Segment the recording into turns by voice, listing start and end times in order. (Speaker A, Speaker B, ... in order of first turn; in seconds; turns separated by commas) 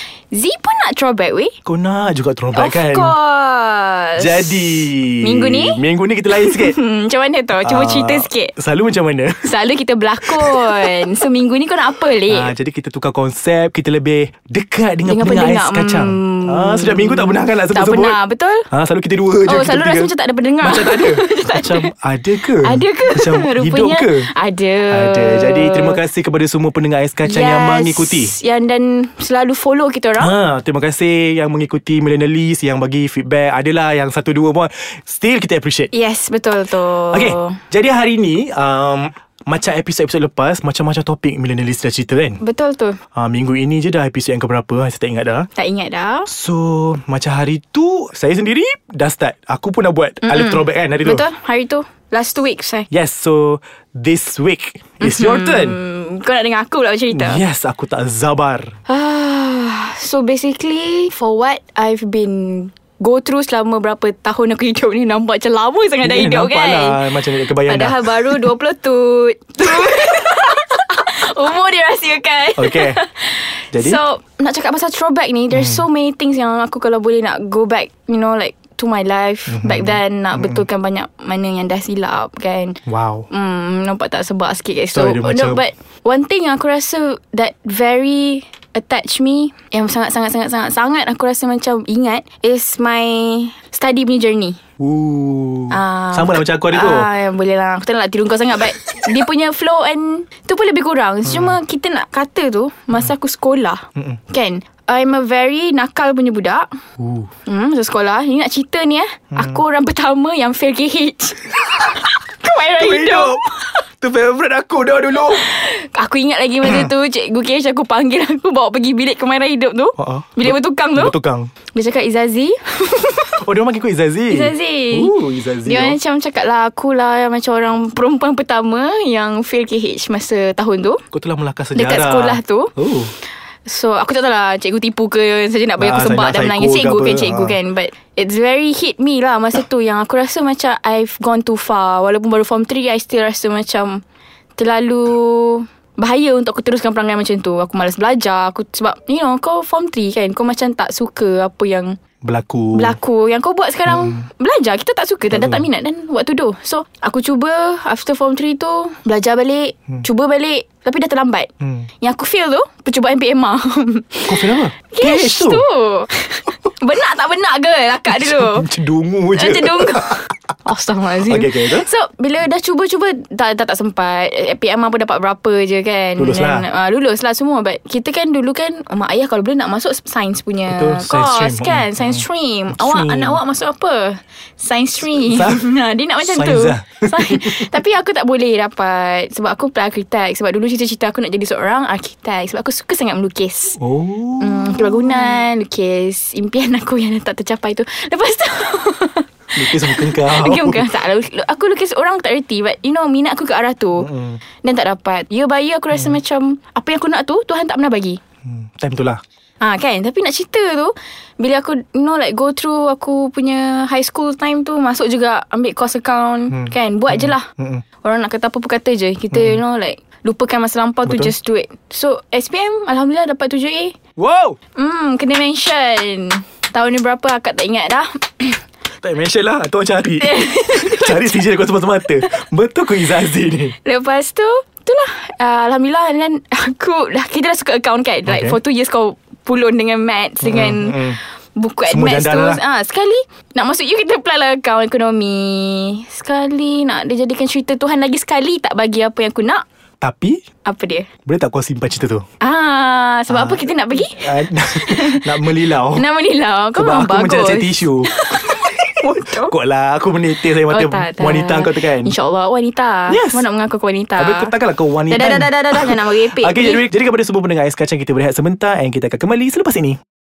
Speaker A: 0.3-1.6, Speaker B: 1.6-3.1, Speaker A: 2.5-5.8, Speaker B: 4.2-6.8, Speaker A: 6.3-8.5, Speaker B: 7.6-9.5, Speaker A: 9.4-12.5, Speaker B: 10.2-11.0, Speaker B: 12.3-18.2, Speaker A: 15.1-18.7, Speaker B: 18.7-24.3, Speaker A: 19.4-21.9, Speaker A: 22.6-26.0, Speaker B: 24.9-28.3, Speaker A: 27.2-30.3, Speaker B: 30.2-35.9, Speaker A: 35.9-37.6, Speaker B: 37.1-42.4, Speaker A: 42.4-43.0, Speaker B: 43.1-45.5, Speaker A: 45.5-46.3, Speaker B: 46.3-51.2, Speaker A: 50.2-52.9, Speaker B: 52.9-55.8, Speaker A: 55.0-57.4, Speaker B: 57.1-58.7, Speaker A: 58.9-82.8, Speaker B: 66.0-68.5, Speaker B: 72.5-73.0, Speaker B: 73.7-74.0, Speaker B: 75.5-75.8, Speaker B: 79.5-80.6, Speaker B: 82.8-83.3, Speaker A: 83.3-94.6, Speaker B: 84.9-85.6, Speaker B: 94.8-97.1, Speaker A: 95.7-106.7, Speaker B: 101.2-101.6, Speaker B: 107.0-107.3, Speaker A: 107.5-113.6, Speaker B: 109.3-109.6, Speaker B: 112.7-115.5, Speaker A: 115.2-121.1, Speaker B: 116.6-116.9, Speaker B: 120.0-121.5, Speaker A: 121.7-123.4, Speaker B: 123.4-126.0, Speaker A: 124.3-125.1, Speaker A: 125.6-131.0, Speaker B: 131.1-133.1, Speaker A: 131.7-132.7, Speaker A: 133.7-144.0, Speaker B: 135.8-137.6, Speaker A: 144.6-152.0, Speaker B: 152.2-153.0, Speaker A: 152.7-161.5, Speaker B: 153.9-154.2, Speaker B: 155.3-155.7, Speaker B: 161.6-161.8, Speaker A: 162.0-168.7, Speaker B: 164.3-165.7, Speaker B: 168.1-170.3, Speaker A: 169.3-193.8, Speaker B: 171.2-171.9, Speaker B: 176.2-176.6, Speaker B: 180.7-183.4, Speaker B: 185.0-185.6, Speaker B: 186.2-187.7, Speaker B: 193.8-195.3, Speaker A: 194.4-204.1, Speaker B: 199.5-200.9, Speaker B: 204.0-204.4, Speaker A: 204.6-208.2, Speaker B: 208.4-209.2, Speaker A: 209.6-217.5, Speaker B: 216.5-217.8, Speaker A: 218.0-223.9, Speaker B: 219.3-219.6, Speaker B: 221.1-221.3, Speaker B: 224.2-224.6, Speaker A: 224.8-228.6, Speaker B: 229.0-233.7, Speaker A: 230.2-231.3, Speaker A: 233.8-249.6, Speaker B: 238.2-238.6, Speaker B: 240.4-241.2, Speaker B: 241.9-242.6, Speaker B: 250.0-250.4, Speaker A: 250.6-251.1, Speaker B: 251.2-252.2, Speaker A: 252.4-259.5, Speaker B: 253.3-256.0, Speaker B: 256.7-262.1, Speaker A: 260.6-264.5, Speaker B: 263.1-263.4, Speaker B: 264.2-270.0, Speaker A: 265.1-266.9